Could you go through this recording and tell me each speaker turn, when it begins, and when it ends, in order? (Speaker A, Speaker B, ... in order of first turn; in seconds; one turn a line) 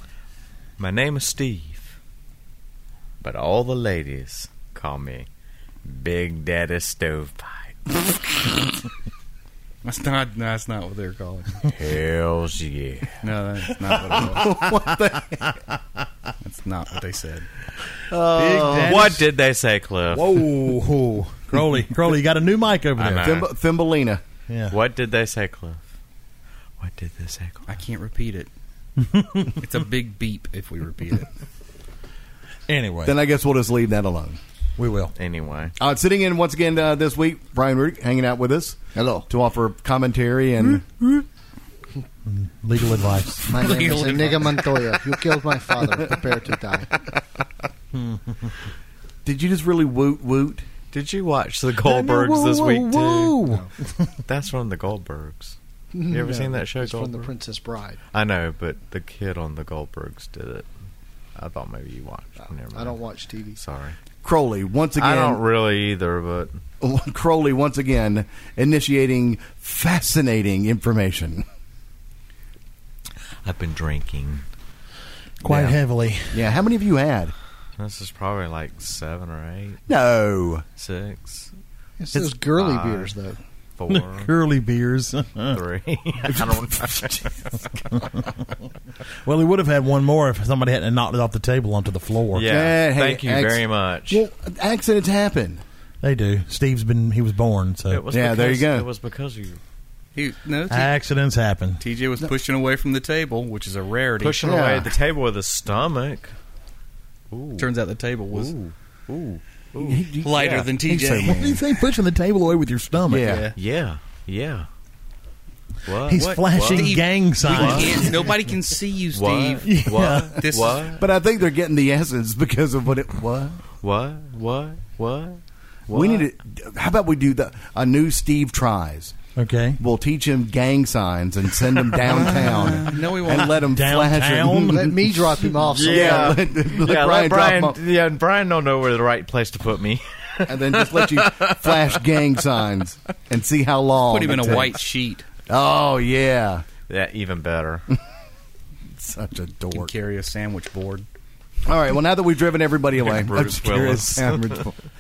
Speaker A: 0.8-1.9
Speaker A: 3.2-5.3
Speaker A: 5.8-8.2
Speaker B: 9.8-11.6
Speaker A: 11.7-13.2
Speaker B: 13.2-14.6
Speaker C: 13.8-14.6
Speaker D: 14.3-15.5
Speaker B: 16.4-17.5
Speaker D: 18.1-19.1
Speaker C: 18.4-19.2
Speaker A: 18.9-20.5
Speaker C: 20.1-23.4
Speaker A: 23.0-23.5
Speaker D: 23.2-24.2
Speaker C: 24.5-24.8
Speaker A: 24.7-25.8
Speaker A: 26.8-27.7
Speaker B: 27.7-28.5
Speaker C: 29.0-29.6
Speaker B: 29.5-31.3
Speaker C: 32.7-33.2
Speaker D: 33.0-34.4
Speaker C: 34.8-35.1
Speaker A: 35.2-35.7
Speaker D: 35.8-40.9
Speaker E: 39.0-39.3
Speaker C: 42.3-43.6
Speaker E: 43.5-46.9
Speaker B: 43.5-44.6
Speaker C: 47.9-48.2
Speaker D: 49.2-50.6
Speaker A: 50.9-53.4
Speaker C: 51.8-53.7
Speaker A: 54.3-55.6
Speaker E: 55.9-58.0
Speaker A: 56.1-57.3
Speaker A: 58.1-60.7
Speaker A: 61.4-63.0
Speaker E: 62.7-63.6
Speaker A: 63.6-64.0
Speaker D: 64.2-65.4
Speaker A: 65.0-66.6
Speaker D: 66.8-71.5
Speaker A: 73.4-74.4
Speaker C: 75.4-76.4
Speaker A: 75.5-75.8
Speaker D: 76.3-77.3
Speaker A: 77.8-79.8
Speaker D: 79.9-80.7
Speaker A: 80.8-81.5
Speaker E: 82.0-83.4
Speaker A: 82.5-83.2
Speaker A: 83.8-84.3
Speaker C: 83.9-85.6
Speaker A: 85.5-88.1
Speaker C: 87.9-88.3
Speaker C: 89.2-92.5
Speaker A: 92.3-94.2
Speaker D: 92.5-95.6
Speaker C: 96.0-98.0
Speaker A: 97.9-99.6
Speaker D: 98.1-98.9
Speaker B: 100.2-100.9
Speaker C: 100.7-101.8
Speaker B: 101.8-104.6
Speaker A: 104.2-106.3
Speaker D: 104.4-104.9
Speaker A: 107.3-107.7
Speaker B: 107.6-108.6
Speaker A: 108.3-110.6
Speaker D: 109.8-111.4
Speaker B: 110.2-111.6
Speaker C: 111.2-113.4
Speaker D: 113.1-113.5
Speaker B: 113.2-113.6
Speaker A: 113.6-114.7
Speaker A: 115.9-117.0
Speaker C: 116.1-118.1
Speaker B: 116.1-121.0
Speaker A: 117.5-118.2
Speaker A: 119.1-121.0
Speaker C: 119.6-120.4
Speaker D: 120.9-123.6
Speaker A: 123.8-126.2
Speaker D: 125.9-129.2
Speaker C: 129.4-129.8
Speaker D: 129.8-137.8
Speaker B: 132.2-133.6
Speaker C: 133.4-134.9
Speaker E: 134.7-136.4
Speaker A: 135.6-142.0
Speaker D: 140.5-144.8
Speaker B: 144.0-145.3
Speaker D: 145.5-146.7
Speaker A: 146.9-147.9
Speaker D: 149.0-149.9
Speaker B: 149.7-151.1
Speaker D: 151.7-154.8
Speaker A: 153.0-154.7